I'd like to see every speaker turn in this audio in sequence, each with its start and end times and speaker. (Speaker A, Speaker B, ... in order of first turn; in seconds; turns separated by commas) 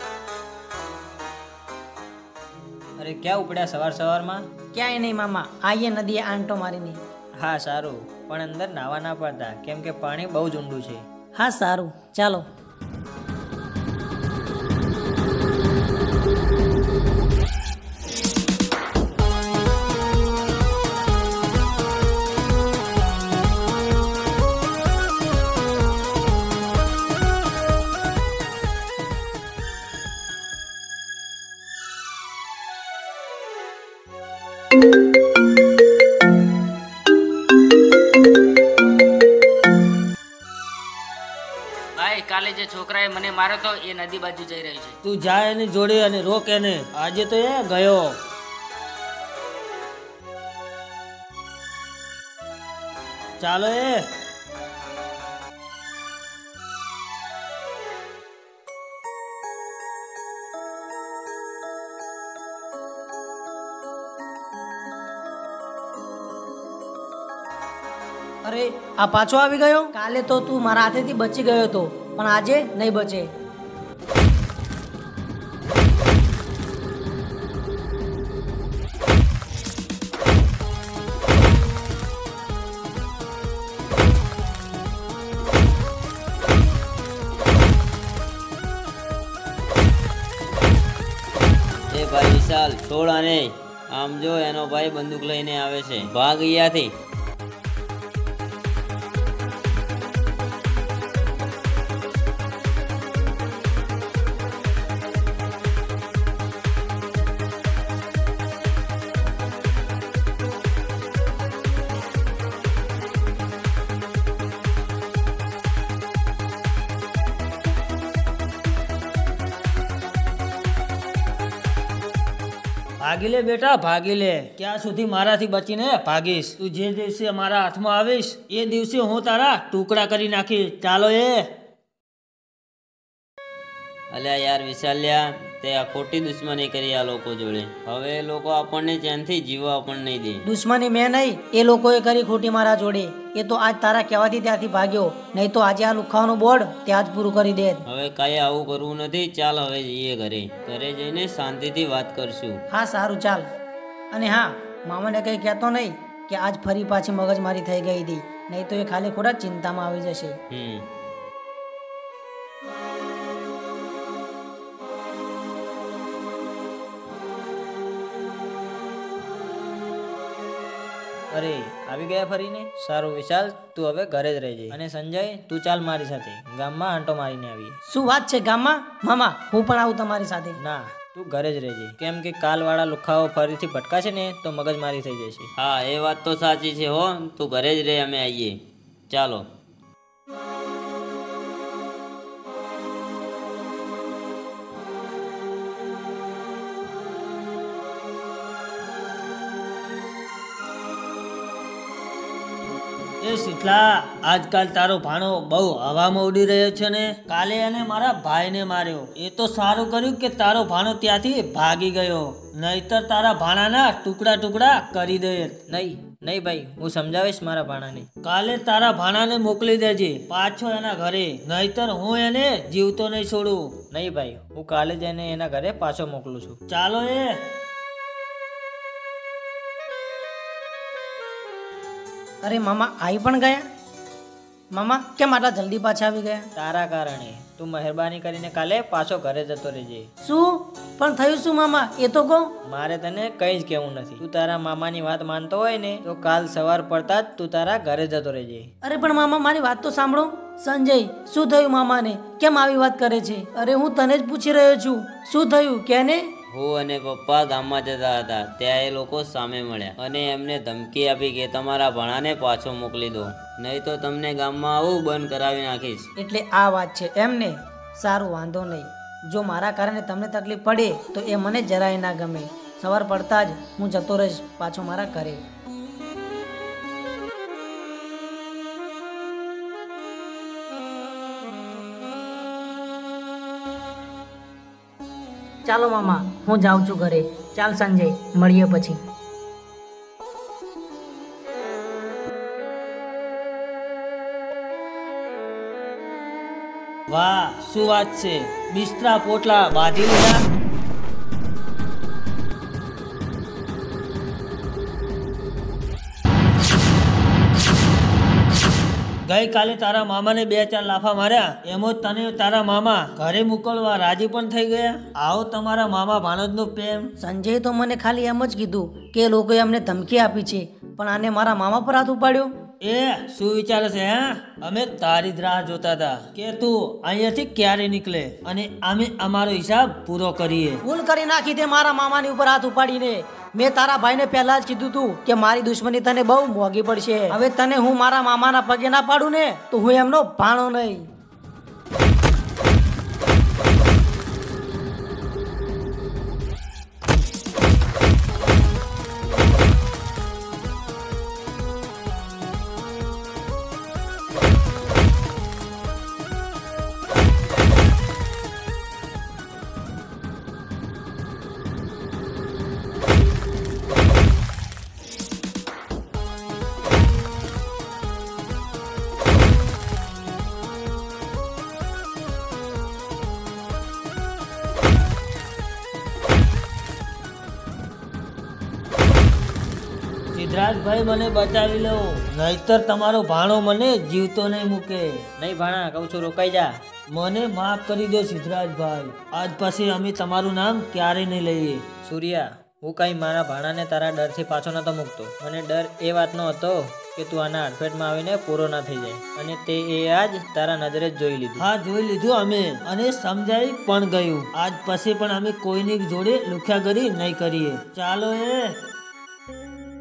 Speaker A: 3.0-4.5, Speaker B: 4.7-7.0, Speaker A: 7.4-11.1, Speaker B: 11.3-12.4, Speaker C: 42.0-44.9, Speaker D: 45.0-48.2, Speaker D: 53.4-54.0, Speaker B: 68.4-73.3, Speaker E: 91.9-96.9, Speaker D: 123.0-131.5, Speaker E: 134.1-140.4, Speaker B: 140.4-147.8, Speaker E: 147.8-152.6, Speaker B: 152.7-153.4, Speaker B: 154.1-160.4, Speaker E: 160.5-160.8, Speaker A: 171.3-177.8, Speaker B: 177.9-180.6, Speaker A: 180.6-185.5, Speaker E: 185.6-188.5, Speaker E: 189.1-189.4, Speaker D: 203.2-215.6, Speaker A: 215.7-218.1, Speaker D: 218.2-223.7, Speaker A: 223.9-226.6, Speaker D: 226.7-227.3, Speaker B: 232.4-233.6, Speaker B: 234.7-236.5, Speaker A: 236.6-240.1, Speaker B: 240.2-242.5, Speaker A: 242.7-248.7, Speaker B: 248.8-256.3, Speaker E: 256.5-266.1, Speaker B: 266.2-275.4, Speaker B: 285.6-289.0, Speaker D: 297.1-300.4, Speaker D: 309.2-317.1, Speaker B: 317.2-322.5, Speaker D: 322.8-330.8, Speaker B: 330.8-341.1, Speaker D: 380.3-385.1, Speaker A: 385.4-386.7, Speaker D: 387.1-391.8, Speaker A: 392.0-401.7, Speaker D: 401.6-408.7